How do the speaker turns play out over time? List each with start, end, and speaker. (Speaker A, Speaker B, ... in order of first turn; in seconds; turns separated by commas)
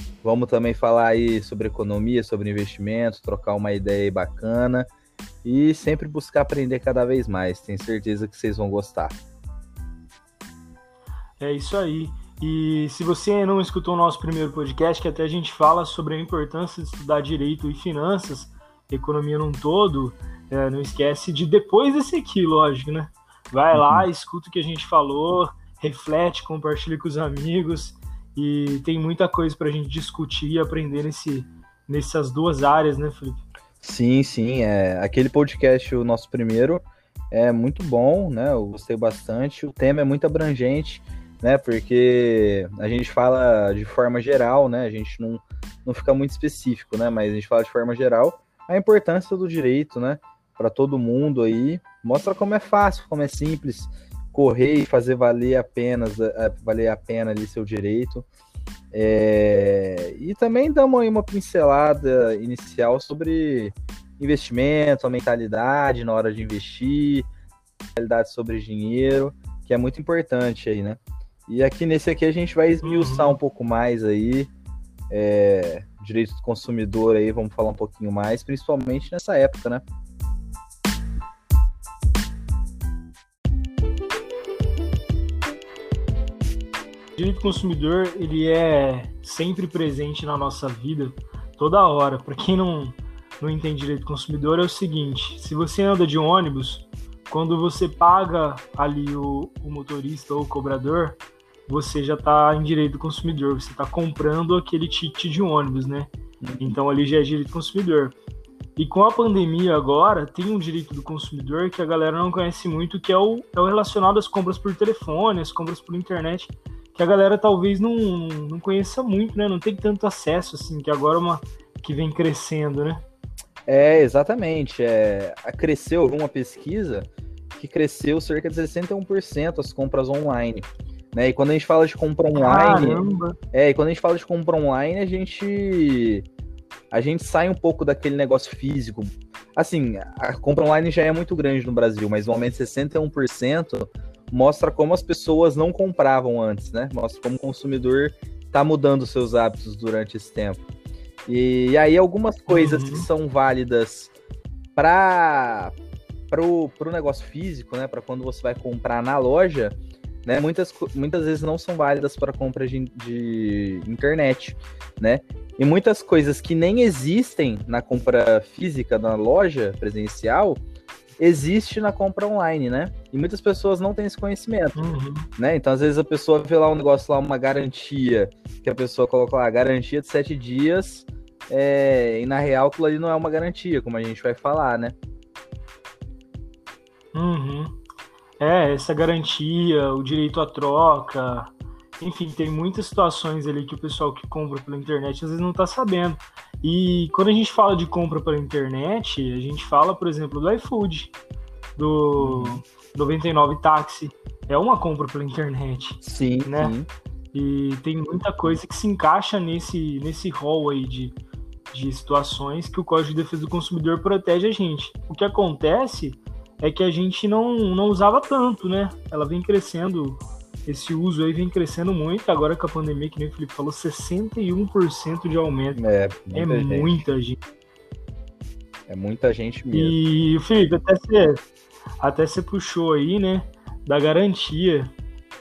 Speaker A: 0.2-4.9, Speaker A: 5.4-9.2, Speaker B: 11.4-33.4, Speaker A: 23.7-24.1, Speaker A: 33.8-58.3, Speaker A: 58.9-67.3, Speaker A: 68.0-74.5, Speaker B: 72.8-73.4, Speaker A: 75.1-79.8, Speaker B: 87.2-108.2, Speaker A: 106.4-106.8, Speaker B: 108.8-123.0, Speaker A: 123.7-136.2, Speaker B: 132.3-133.4, Speaker A: 136.9-150.6, Speaker A: 151.3-154.1, Speaker B: 152.5-153.1, Speaker A: 154.8-155.7, Speaker A: 156.3-170.6, Speaker A: 171.2-185.0, Speaker B: 174.8-175.3, Speaker B: 187.1-187.8, Speaker B: 188.4-201.1, Speaker B: 201.8-206.8, Speaker A: 202.2-202.6, Speaker A: 206.0-206.9, Speaker B: 207.3-211.2, Speaker B: 211.7-225.8, Speaker A: 225.8-227.0, Speaker B: 226.3-227.4, Speaker A: 228.9-230.0, Speaker B: 229.7-231.4, Speaker B: 232.0-234.9